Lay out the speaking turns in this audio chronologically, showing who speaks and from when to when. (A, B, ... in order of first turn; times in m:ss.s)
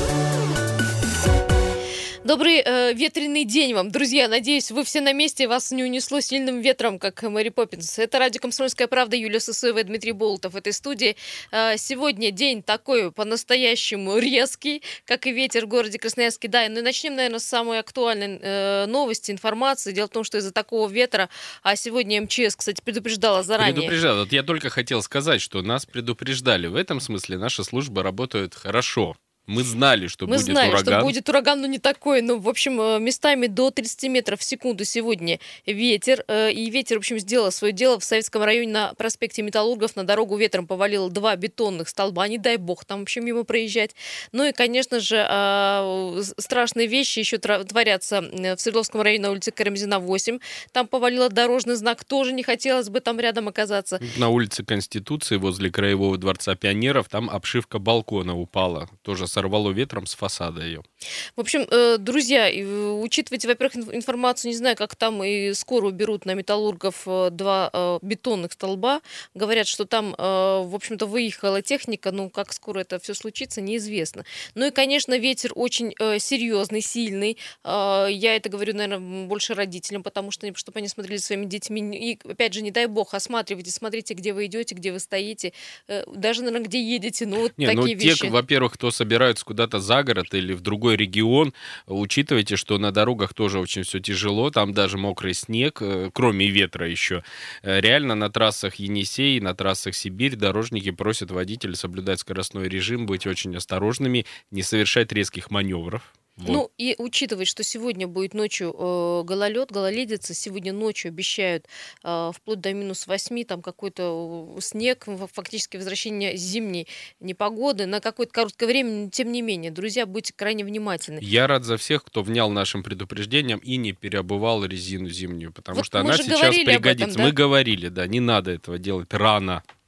0:02.2-0:24.0 A
0:23.6-0:31.1 B
0:30.3-0:54.0 A
0:54.0-1:00.8 B
1:01.4-1:28.3 A
1:27.6-1:46.6 B
1:46.5-2:01.2 A
2:01.2-2:09.6 B
2:05.7-2:07.3 A